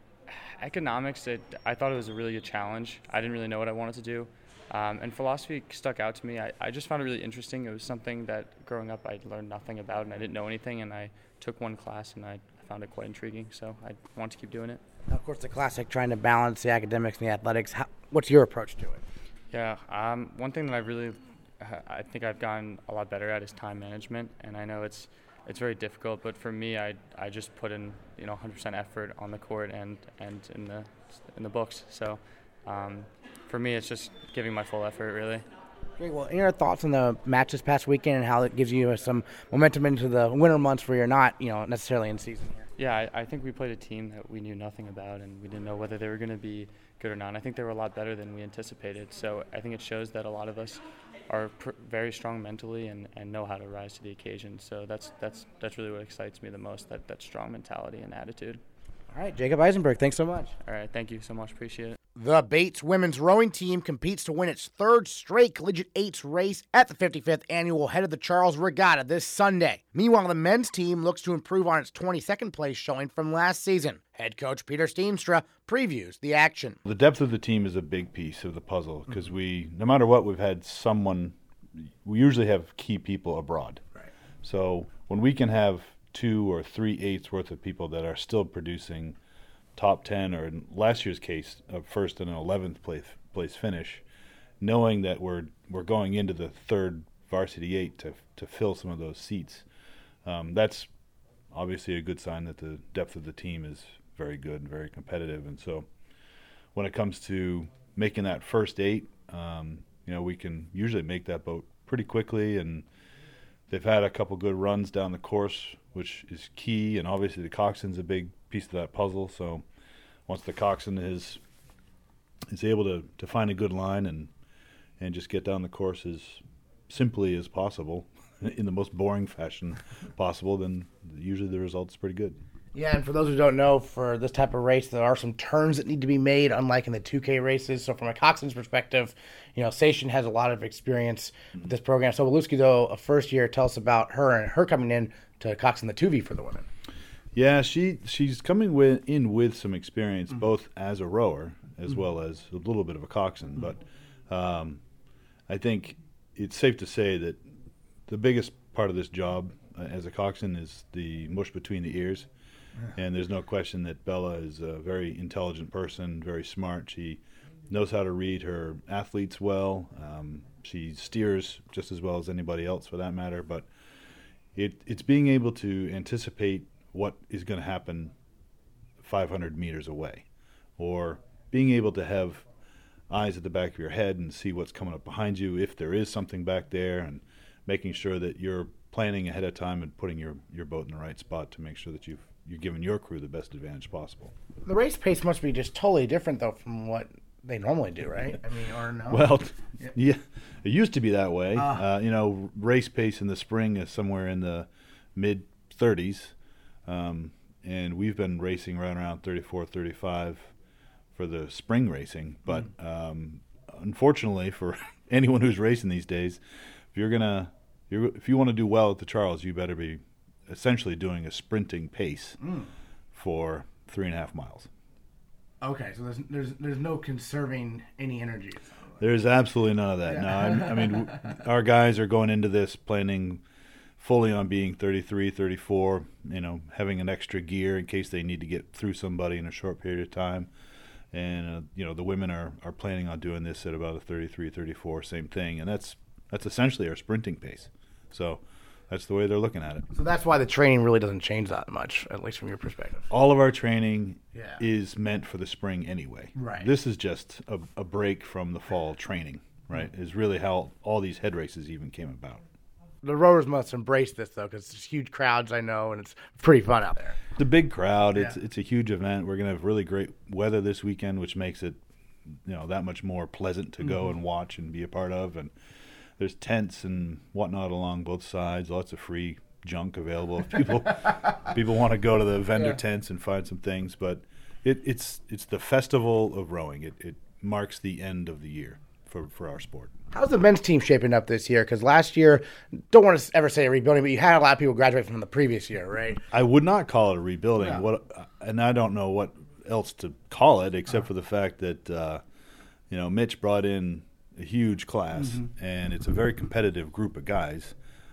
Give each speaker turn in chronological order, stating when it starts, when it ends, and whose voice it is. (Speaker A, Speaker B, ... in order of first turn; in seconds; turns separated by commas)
Speaker A: 0.3-14.8, Speaker B: 15.1-19.0, Speaker A: 19.5-35.4, Speaker B: 36.0-42.7, Speaker A: 42.8-58.6, Speaker B: 59.1-60.5, Speaker A: 60.6-62.0, Speaker B: 62.2-76.8, Speaker C: 76.8-81.3, Speaker C: 82.0-83.8, Speaker C: 84.4-89.2, Speaker C: 89.8-94.0, Speaker C: 94.6-99.6, Speaker C: 100.2-100.9, Speaker C: 101.5-105.9, Speaker C: 106.7-112.8, Speaker C: 113.7-119.6, Speaker C: 120.3-121.4, Speaker C: 122.5-124.3, Speaker C: 125.0-132.4, Speaker B: 132.7-146.7, Speaker C: 147.3-154.8, Speaker C: 155.5-157.4, Speaker C: 158.1-162.3, Speaker C: 162.9-173.7, Speaker C: 174.5-178.1, Speaker C: 179.0-180.2, Speaker C: 180.8-182.4, Speaker C: 183.1-194.3, Speaker B: 194.6-199.9, Speaker C: 199.1-206.3, Speaker B: 201.5-201.8, Speaker C: 206.8-210.5, Speaker C: 211.1-216.4, Speaker C: 216.9-222.4, Speaker B: 222.4-222.7, Speaker C: 223.1-224.7, Speaker B: 225.6-229.0, Speaker C: 229.0-233.4, Speaker B: 230.1-231.1, Speaker C: 234.0-240.5, Speaker C: 241.1-249.9, Speaker B: 249.9-253.1, Speaker C: 253.1-262.4, Speaker B: 254.3-254.6, Speaker B: 256.3-256.7, Speaker B: 263.0-267.2, Speaker C: 267.4-271.8, Speaker C: 272.4-275.5, Speaker C: 276.2-289.9, Speaker B: 290.1-296.2, Speaker C: 296.3-302.2, Speaker C: 302.9-307.7, Speaker B: 305.2-305.5